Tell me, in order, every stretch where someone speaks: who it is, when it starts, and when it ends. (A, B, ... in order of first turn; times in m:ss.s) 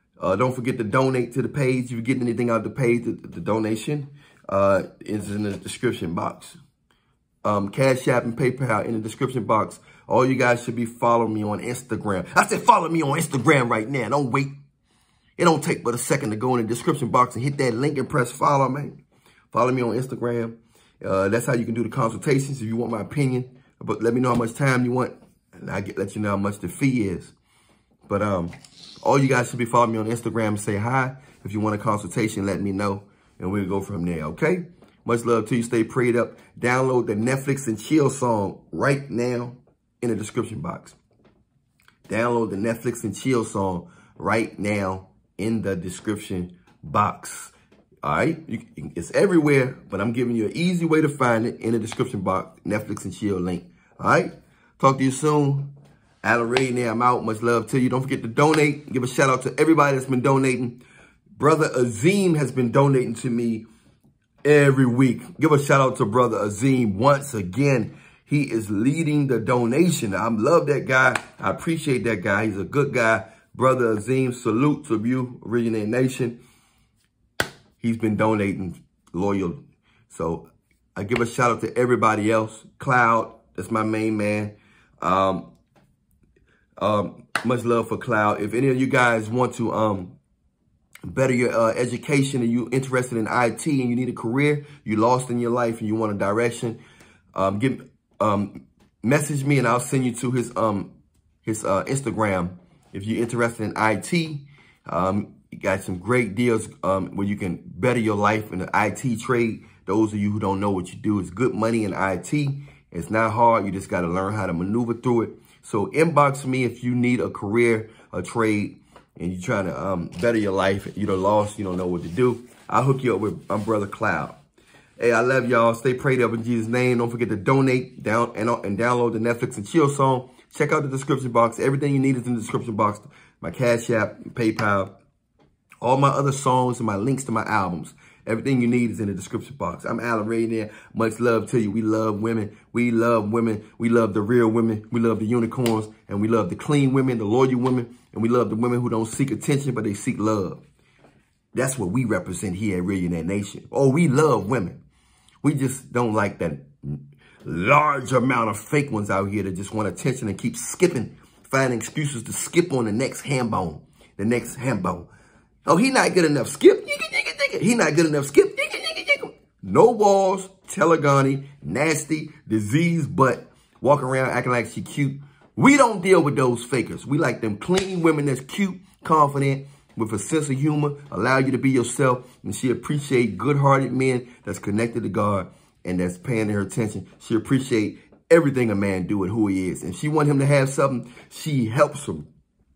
0:00.2-0:06.6 A
0:07.4-0:14.5 A
0:15.4-0:19.0 A
0:19.5-0:27.3 A
0:28.1-0:41.0 A
0:42.1-0:55.7 A
0:56.2-1:00.8 A
1:01.3-1:03.7 A
1:04.4-1:16.4 A
1:17.8-1:25.5 A
1:26.8-1:30.2 A
1:31.0-1:36.8 A
1:37.3-1:40.9 A
1:41.4-2:04.4 A
2:05.0-2:14.9 A
2:15.8-2:30.6 A
2:31.5-2:34.8 A
2:35.4-2:45.1 A
2:45.6-3:12.3 A